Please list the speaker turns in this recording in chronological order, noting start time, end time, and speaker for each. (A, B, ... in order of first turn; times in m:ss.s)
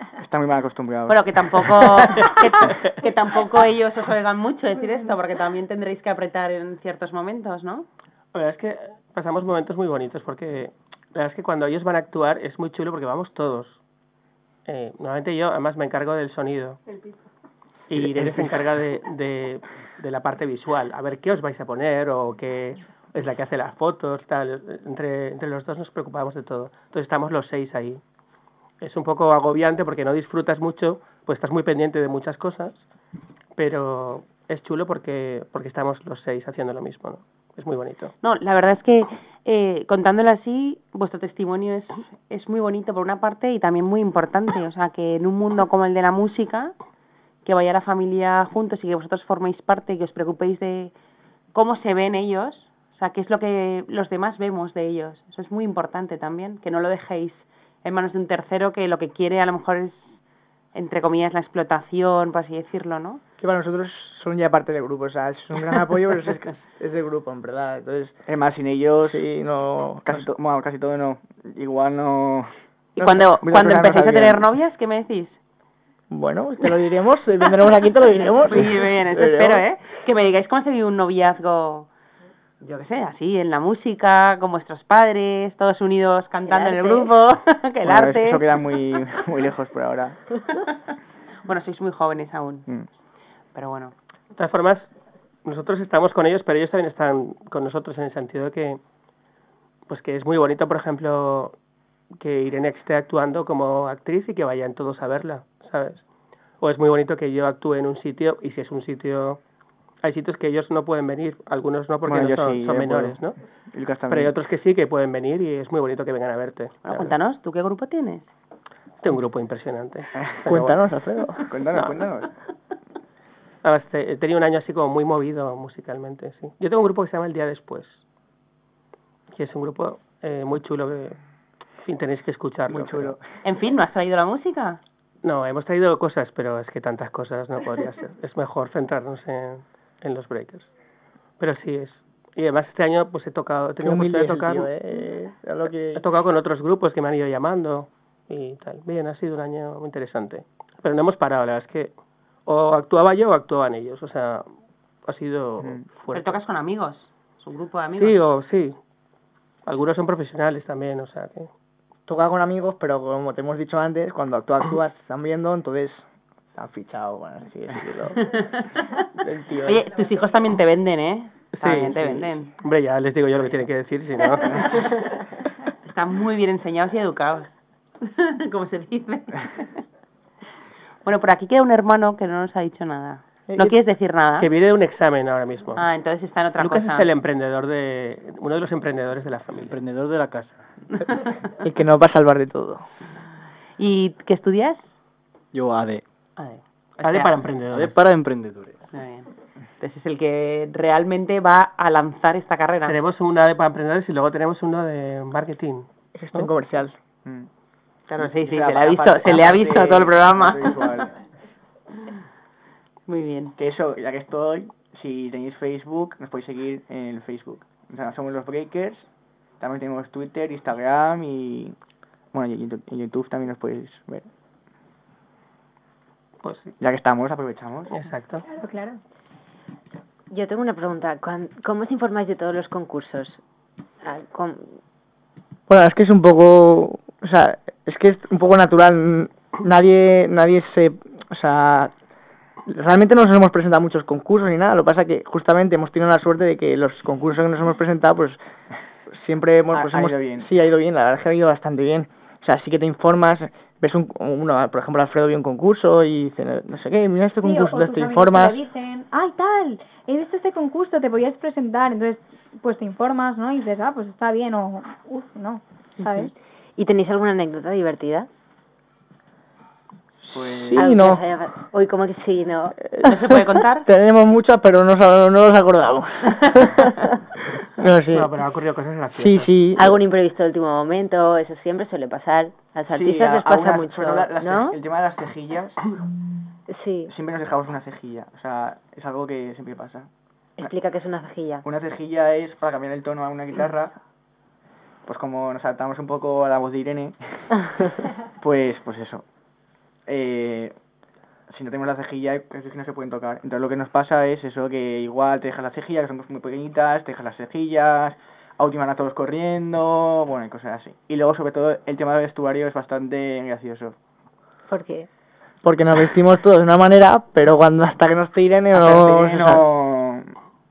0:00.2-0:01.6 A
0:01.1-0:07.9 B
0:02.3-0:02.9 C
0:08.3-0:13.8 C
0:14.7-0:16.8 C
0:17.9-0:28.0 C
0:18.0-0:18.5 A
0:28.8-0:32.8 C
0:33.6-0:38.1 C
0:38.2-0:46.8 B
0:47.5-0:50.9 B
0:51.5-1:00.2 B
1:00.7-1:03.2 B
1:03.4-1:08.2 D
1:08.3-1:09.2 A
1:09.0-1:10.3 D
1:10.0-1:14.5 A
1:13.0-1:15.4 B
1:16.1-1:19.7 D
1:18.4-1:21.9 B
1:22.6-1:28.6 B
1:26.5-1:27.2 E
1:27.8-1:30.2 A
1:31.5-1:32.7 B
1:33.6-1:33.9 B
1:34.3-1:34.9 C
1:35.4-1:38.8 C
1:39.9-1:41.5 C
1:42.1-1:46.0 C
1:46.6-1:49.4 C
1:50.0-1:53.4 C
1:52.0-1:54.3 A
1:54.1-1:57.2 C
1:56.8-1:58.3 B
1:59.0-2:00.8 C
2:00.2-2:00.5 A
2:00.5-2:01.5 D
2:01.5-2:02.3 A
2:03.6-2:08.0 C
2:09.3-2:11.2 C
2:11.8-2:13.2 C
2:12.7-2:13.2 A
2:13.4-2:14.8 B
2:15.2-2:20.7 C
2:21.4-2:25.1 C
2:23.8-2:26.0 D
2:26.0-2:34.5 C
2:35.0-2:36.4 C
2:36.1-2:38.2 B
2:38.0-2:38.8 C
2:39.7-2:41.5 C
2:42.1-2:46.0 D
2:46.6-2:48.5 D
2:49.2-2:49.9 D
2:49.6-2:52.5 B
2:51.5-2:55.0 C
2:55.8-2:59.7 B
3:01.0-3:04.5 B
3:03.5-3:03.8 D
3:04.4-3:05.9 C
3:05.8-3:07.1 B
3:06.6-3:09.8 C
3:09.6-3:10.6 F
3:11.1-3:11.3 B
3:11.6-3:12.8 D
3:13.8-3:14.9 B
3:15.5-3:16.0 F
3:16.4-3:17.3 B
3:17.0-3:18.0 C
3:17.0-3:18.8 F
3:18.9-3:19.3 B
3:19.8-3:23.0 B
3:22.9-3:26.5 C
3:26.1-3:27.0 D
3:28.1-3:31.0 B
3:28.2-3:31.2 A
3:33.1-3:33.6 B
3:33.6-3:41.8 A
3:42.3-3:44.3 A
3:46.4-3:46.7 C
3:46.8-3:47.9 A
3:47.9-3:48.4 C
3:48.5-3:49.0 G
3:50.3-3:53.4 E
3:54.0-3:54.8 E
3:55.7-4:01.9 D
4:02.7-4:08.4 D
4:09.2-4:18.6 D
4:09.7-4:10.5 A
4:17.4-4:26.3 G
4:26.8-4:28.3 E
4:30.2-4:31.2 D
4:30.3-4:30.8 A
4:30.7-4:32.8 E
4:32.9-4:36.9 D
4:33.0-4:33.9 B
4:37.8-4:38.4 D
4:38.1-4:39.7 C
4:39.2-4:39.9 D
4:39.8-4:44.8 E
4:42.9-4:45.8 A
4:46.7-4:47.1 E
4:47.1-4:50.1 A
4:50.6-4:51.6 E
4:51.6-4:54.0 A
4:55.1-4:57.5 A
4:58.4-4:59.2 A
5:00.1-5:00.7 A
5:01.5-5:14.0 A
5:14.7-5:15.1 E
5:15.6-5:19.6 D
5:18.7-5:20.3 A